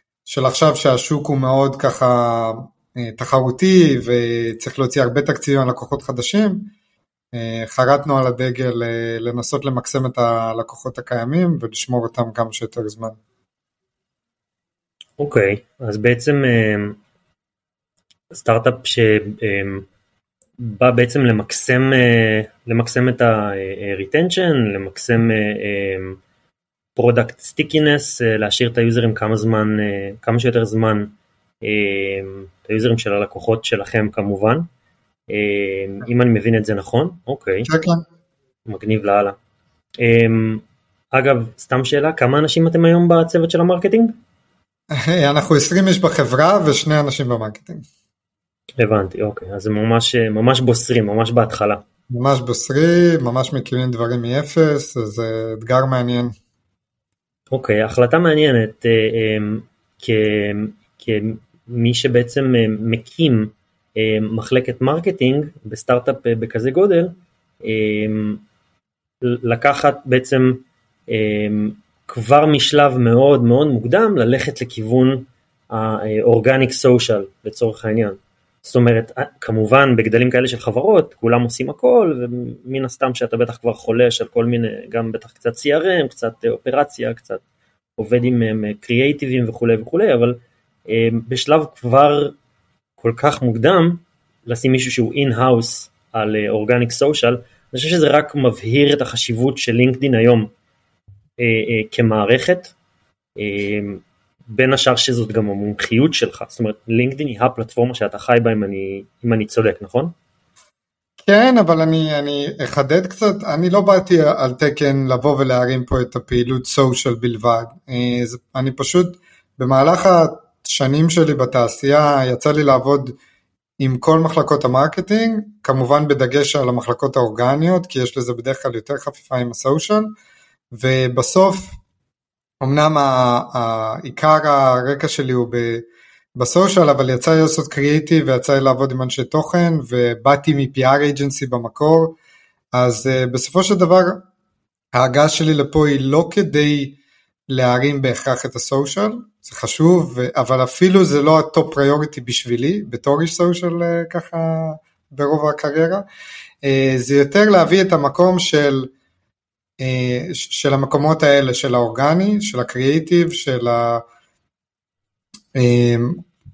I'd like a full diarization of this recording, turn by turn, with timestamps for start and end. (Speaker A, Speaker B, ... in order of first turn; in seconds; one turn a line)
Speaker A: 0.3-6.7
Speaker A: 7.3-13.2
Speaker B: 15.2-17.0
Speaker B: 18.3-19.9
Speaker B: 20.6-26.2
Speaker B: 26.9-34.7
Speaker B: 35.3-37.7
Speaker A: 37.6-38.0
Speaker B: 38.7-39.4
Speaker B: 40.0-44.2
Speaker A: 44.9-47.9
Speaker B: 48.8-51.8
Speaker A: 52.1-56.3
Speaker B: 57.5-68.4
Speaker B: 69.2-87.4
Speaker B: 88.0-92.3
Speaker B: 93.0-100.5
Speaker B: 101.4-102.7
Speaker B: 103.4-110.1
Speaker A: 111.2-123.2
Speaker A: 123.8-130.1
Speaker A: 130.7-131.8
Speaker A: 132.6-135.8
Speaker A: 136.4-142.2
Speaker A: 142.8-144.2
Speaker A: 144.9-147.0
Speaker A: 147.5-156.1
Speaker A: 156.6-158.9
Speaker A: 159.8-164.0
Speaker A: 165.6-166.2